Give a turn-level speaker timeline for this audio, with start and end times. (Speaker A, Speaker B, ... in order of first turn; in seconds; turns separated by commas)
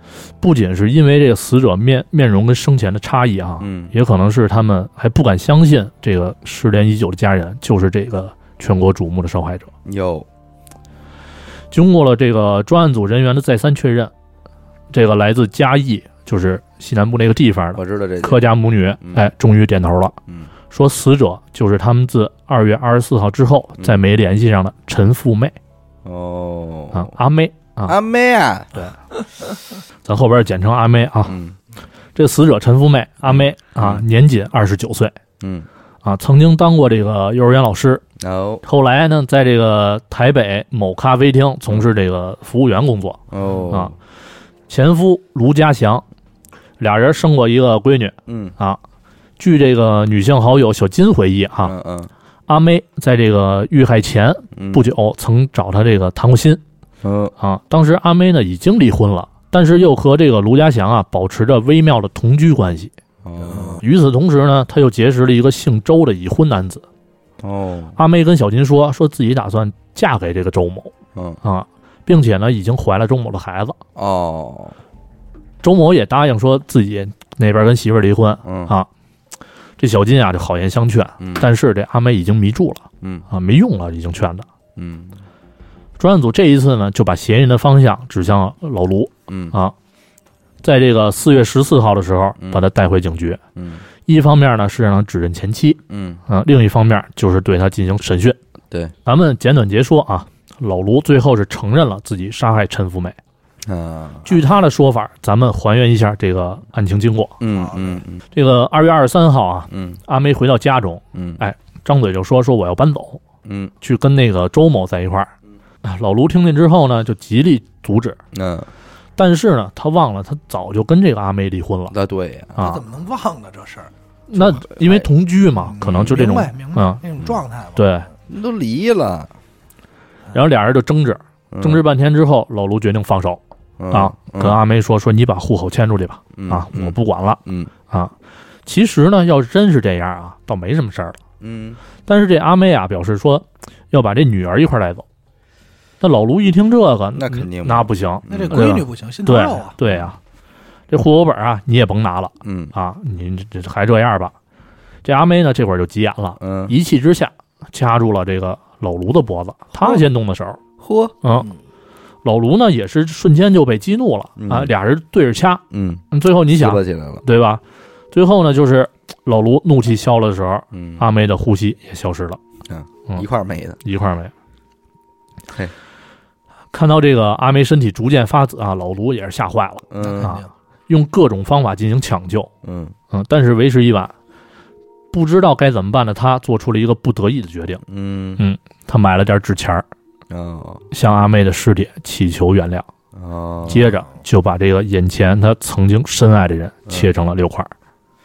Speaker A: 0.4-9.7, Speaker B: 3.6-3.9, Speaker B: 9.8-10.3, Speaker A: 11.7-14.1, Speaker A: 14.9-20.2, Speaker B: 17.8-18.4, Speaker B: 19.0-19.3, Speaker A: 20.7-25.6, Speaker B: 26.1-27.1, Speaker A: 26.9-27.9, Speaker B: 27.9-28.9, Speaker A: 30.1-31.4, Speaker B: 31.3-31.6, Speaker A: 32.2-35.1, Speaker B: 33.3-34.0, Speaker B: 35.4-35.7, Speaker A: 36.0-38.0, Speaker B: 38.2-38.6, Speaker A: 38.6-43.2, Speaker B: 43.3-43.9, Speaker A: 44.7-46.0, Speaker A: 46.8-48.8, Speaker B: 48.3-48.5, Speaker A: 49.4-51.7, Speaker B: 51.6-52.1, Speaker A: 52.5-56.6, Speaker B: 54.5-54.9, Speaker B: 57.0-57.3, Speaker A: 57.4-62.9, Speaker B: 63.2-63.8, Speaker A: 63.5-66.8, Speaker B: 67.4-68.0, Speaker A: 68.0-73.8, Speaker B: 71.2-71.4, Speaker B: 74.0-74.8, Speaker A: 75.6-78.9, Speaker B: 78.4-78.7, Speaker A: 79.8-84.5, Speaker B: 81.2-81.5, Speaker B: 84.8-85.2, Speaker A: 86.0-89.7, Speaker B: 89.3-89.6, Speaker A: 90.6-93.4, Speaker B: 92.4-92.7, Speaker B: 93.6-93.8, Speaker A: 94.0-98.4, Speaker B: 95.9-96.2, Speaker A: 99.0-103.2, Speaker B: 103.7-104.3, Speaker A: 104.3-107.4, Speaker B: 107.4-108.2, Speaker C: 107.5-108.0, Speaker A: 108.3-113.2, Speaker B: 109.7-110.0, Speaker B: 111.1-111.4, Speaker B: 113.5-113.7, Speaker A: 113.8-115.3, Speaker A: 115.8-118.2, Speaker B: 118.3-118.7, Speaker A: 119.2-121.9, Speaker B: 121.9-122.8, Speaker A: 122.6-122.8, Speaker C: 122.6-123.9, Speaker A: 124.3-127.0, Speaker B: 124.4-125.1, Speaker C: 125.7-128.1, Speaker B: 125.8-126.2, Speaker A: 127.8-128.1, Speaker B: 128.3-129.3, Speaker A: 130.3-133.4, Speaker B: 131.5-131.8, Speaker B: 133.8-134.6, Speaker A: 133.9-138.1, Speaker B: 136.4-137.7, Speaker A: 138.7-141.2, Speaker B: 141.4-141.8, Speaker A: 142.1-145.0, Speaker A: 146.0-150.2, Speaker B: 147.2-148.6, Speaker C: 148.3-149.8, Speaker A: 150.9-154.3, Speaker B: 152.4-152.7, Speaker A: 155.0-160.6, Speaker B: 156.4-156.7, Speaker B: 160.8-161.2, Speaker A: 161.2-161.5, Speaker A: 162.2-172.4, Speaker B: 164.4-164.7, Speaker B: 165.7-167.2, Speaker B: 170.7-171.1, Speaker B: 172.7-173.8, Speaker A: 173.8-174.3, Speaker A: 176.7-182.5, Speaker B: 179.9-180.4, Speaker C: 180.0-180.5, Speaker B: 182.6-182.9, Speaker A: 183.1-184.1, Speaker A: 185.1-187.8, Speaker B: 187.9-188.4, Speaker A: 188.4-189.8, Speaker B: 190.3-190.8, Speaker A: 190.9-192.9, Speaker B: 193.2-193.9, Speaker A: 193.7-197.7